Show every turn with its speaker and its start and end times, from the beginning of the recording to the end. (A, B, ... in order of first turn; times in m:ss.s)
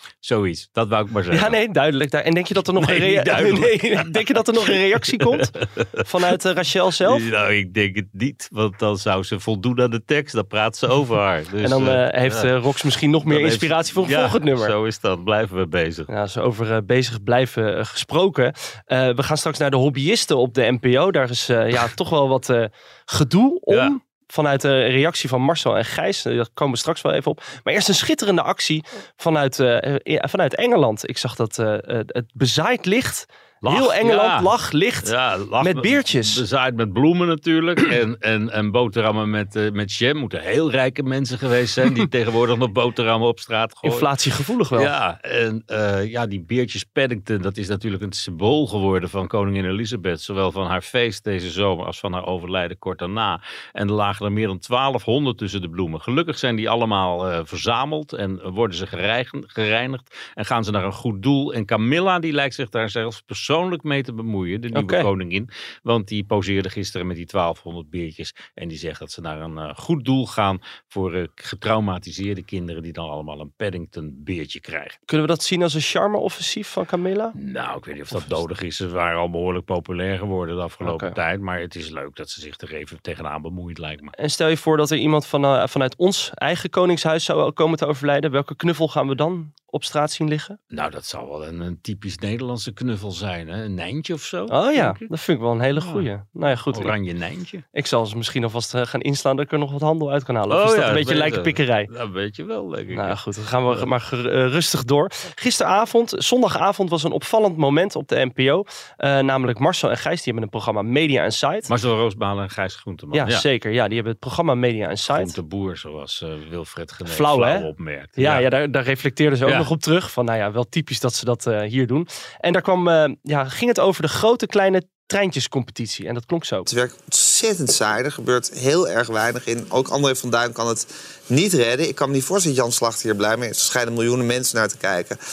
0:00.2-0:01.6 A
0:01.3-0:07.3 B
0:02.8-0:04.4 A
0:05.2-0:06.1 A
0:07.1-0:12.5 A
0:11.6-0:14.8 B
0:13.3-0:16.1 A
0:16.1-0:36.4 B
0:33.6-0:34.5 A
0:35.0-0:44.1 A
0:43.8-0:45.0 B
0:44.7-1:15.0 A
1:04.7-1:05.1 B
1:15.1-1:17.4 B
1:17.4-1:24.1 A
1:20.8-1:21.2 B
1:24.2-1:30.6 B
1:30.7-1:35.1 A
1:34.5-1:37.0 B
1:35.8-1:36.1 A
1:36.7-1:37.6 A
1:37.7-1:41.9 B
1:40.5-1:43.2 A
1:42.9-1:51.7 B
1:51.7-1:53.5 A
1:53.1-1:55.4 B
1:55.1-1:58.5 A
1:57.1-2:06.7 B
1:59.4-1:59.7 A
2:06.7-2:15.2 C